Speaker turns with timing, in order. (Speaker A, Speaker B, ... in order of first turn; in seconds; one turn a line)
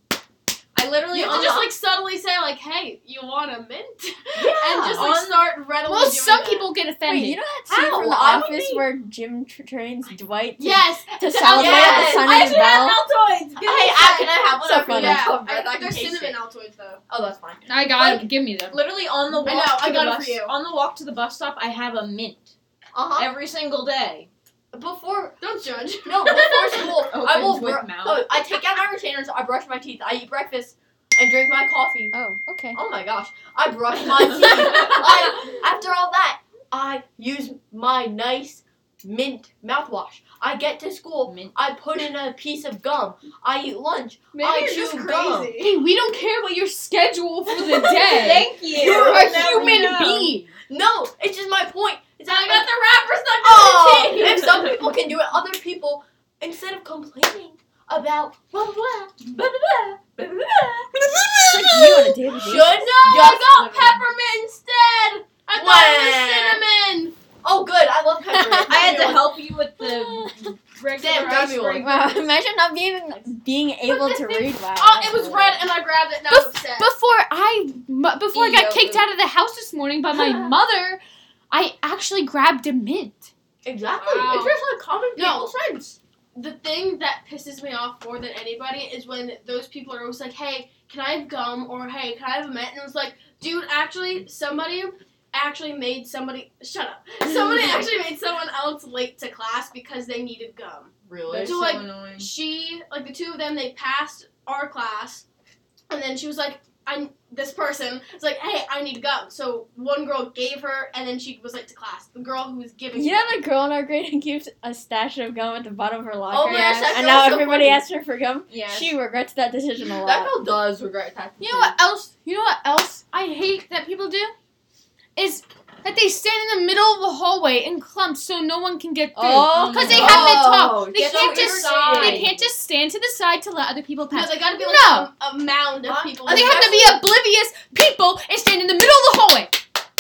Speaker A: 0.8-1.6
Speaker B: 1.1-6.7
Speaker C: 4.4-5.1
Speaker D: 4.9-5.5
Speaker A: 5.8-7.5
Speaker E: 7.0-13.0
Speaker C: 7.6-8.9
Speaker B: 10.6-17.0
Speaker C: 11.5-12.8
Speaker C: 13.6-16.4
Speaker E: 14.6-15.3
Speaker C: 17.1-18.2
Speaker A: 17.7-18.8
Speaker D: 18.7-22.5
Speaker B: 19.4-20.5
Speaker C: 22.9-23.3
Speaker D: 23.2-24.3
Speaker C: 24.7-25.4
Speaker B: 25.4-26.9
Speaker C: 26.1-32.1
Speaker D: 26.8-28.4
Speaker E: 32.1-32.8
Speaker C: 32.7-45.6
Speaker D: 41.3-41.5
Speaker B: 44.3-45.8
Speaker A: 45.6-48.5
Speaker C: 47.5-52.7
Speaker D: 48.1-50.5
Speaker B: 48.7-49.6
Speaker A: 49.1-50.2
Speaker B: 52.3-54.8
Speaker C: 53.4-64.0
Speaker E: 61.5-62.9
Speaker B: 62.5-67.2
Speaker C: 65.5-66.6
Speaker C: 67.4-69.2
Speaker E: 68.3-68.8
Speaker D: 68.7-70.5
Speaker B: 68.7-69.2
Speaker C: 70.9-72.0
Speaker A: 71.0-71.7
Speaker E: 71.8-75.6
Speaker B: 73.9-76.9
Speaker A: 76.3-83.3
Speaker D: 78.3-79.1
Speaker C: 83.6-86.0
Speaker A: 84.0-84.6
Speaker B: 85.2-85.5
Speaker B: 86.3-105.2
Speaker C: 101.1-101.6
Speaker D: 101.3-102.3
Speaker B: 105.9-113.3
Speaker E: 112.9-120.3
Speaker C: 116.3-117.8
Speaker B: 116.5-117.1
Speaker D: 118.5-119.0
Speaker C: 120.0-121.8
Speaker A: 121.4-124.3
Speaker A: 125.2-135.1
Speaker C: 129.2-132.3
Speaker D: 129.5-132.4
Speaker B: 131.1-132.3
Speaker B: 134.1-136.8
Speaker C: 135.8-137.0
Speaker A: 136.2-139.6